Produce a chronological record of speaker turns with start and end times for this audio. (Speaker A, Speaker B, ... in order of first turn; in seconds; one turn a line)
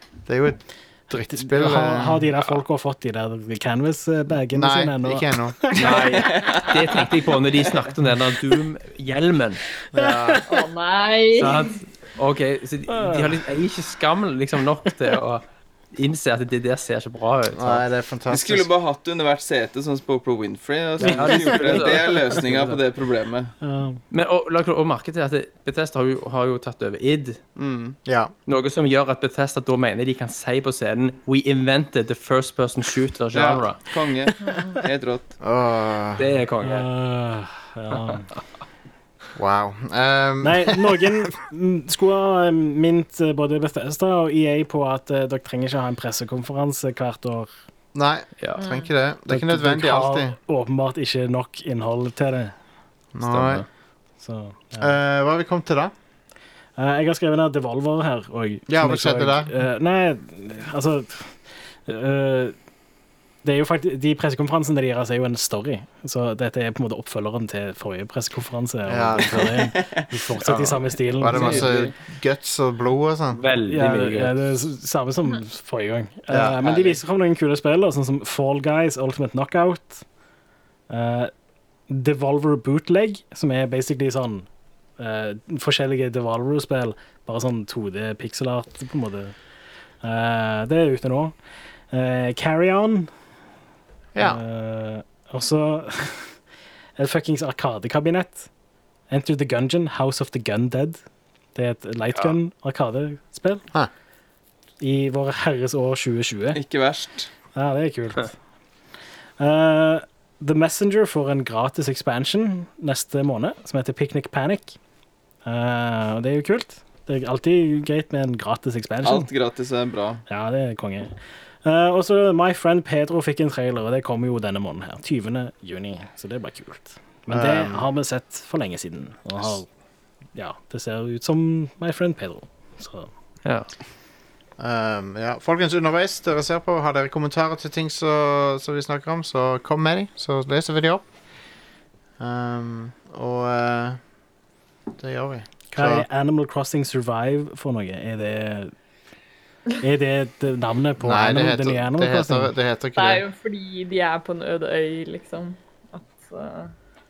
Speaker A: 0.2-2.2
Speaker B: 1.1-6.2
Speaker A: 4.5-5.6
Speaker C: 5.8-9.6
Speaker D: 5.8-7.0
Speaker A: 9.9-10.4
Speaker B: 10.0-10.4
Speaker E: 10.5-11.8
Speaker C: 11.4-17.8
Speaker B: 12.9-13.4
Speaker A: 17.5-18.7
Speaker D: 18.3-23.5
Speaker C: 21.0-22.8
Speaker B: 21.4-21.8
Speaker B: 23.6-24.0
Speaker C: 24.1-27.4
Speaker A: 27.6-28.3
Speaker C: 28.5-33.8
Speaker D: 33.3-35.3
Speaker E: 34.4-34.7
Speaker A: 35.4-36.3
Speaker C: 36.2-36.9
Speaker B: 36.6-38.3
Speaker A: 39.4-41.1
Speaker B: 40.4-47.5
Speaker A: 47.9-50.4
Speaker E: 48.5-48.9
Speaker B: 49.3-52.5
Speaker A: 53.1-53.6
Speaker C: 53.2-53.6
Speaker B: 54.2-54.9
Speaker A: 54.8-55.9
Speaker B: 56.8-62.5
Speaker A: 58.7-59.5
Speaker B: 63.4-71.7
Speaker A: 68.9-69.7
Speaker D: 69.5-70.1
Speaker C: 70.5-70.8
Speaker A: 71.2-73.4
Speaker D: 71.3-71.9
Speaker C: 73.3-74.4
Speaker B: 73.7-80.0
Speaker A: 76.3-76.7
Speaker B: 80.9-81.3
Speaker B: 81.9-84.5
Speaker B: 85.0-89.3
Speaker B: 90.0-91.3
Speaker B: 91.9-93.1
Speaker A: 94.1-94.4
Speaker B: 94.2-96.3
Speaker B: 97.0-98.5
Speaker B: 99.1-101.0
Speaker B: 101.5-103.6
Speaker B: 104.8-106.6
Speaker D: 106.5-107.3
Speaker B: 107.5-108.3
Speaker B: 109.4-114.7
Speaker B: 115.4-119.3
Speaker D: 119.0-120.2
Speaker B: 120.3-129.7
Speaker A: 127.3-127.9
Speaker B: 130.3-133.1
Speaker A: 134.6-141.0
Speaker A: 142.2-144.0
Speaker A: 145.0-146.1
Speaker B: 145.7-148.7
Speaker B: 149.8-152.5
Speaker A: 151.0-153.2
Speaker E: 152.9-156.7